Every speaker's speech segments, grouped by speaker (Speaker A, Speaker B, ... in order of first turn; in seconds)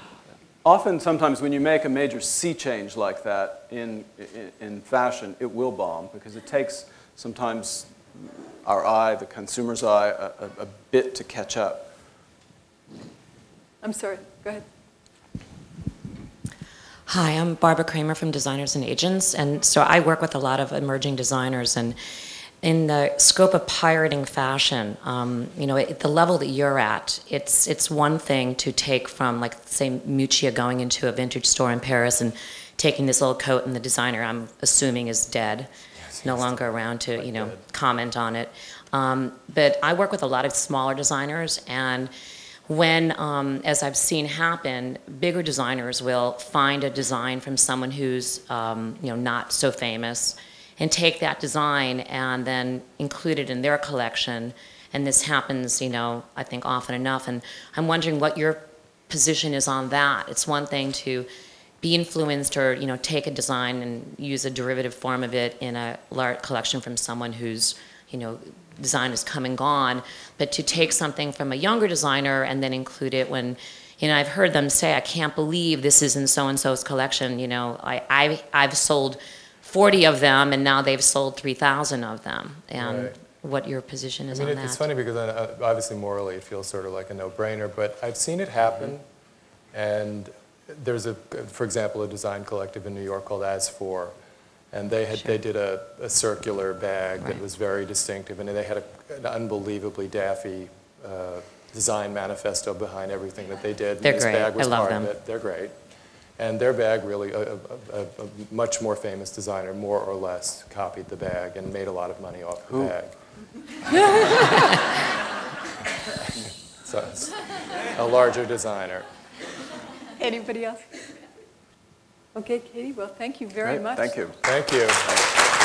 Speaker A: 0.6-11.9, 112.7-112.9, 123.6-124.4
Speaker B: 13.8-14.6, 120.2-121.0, 122.3-124.2
Speaker C: 17.1-21.9, 22.6-35.7, 36.2-42.1, 42.7-61.3, 61.8-84.8, 104.0-105.1
Speaker D: 36.0-37.6, 82.8-83.1, 84.3-89.0, 89.7-94.1, 94.7-105.7, 106.4-113.1, 113.9-114.8, 116.8-119.1, 124.4-125.2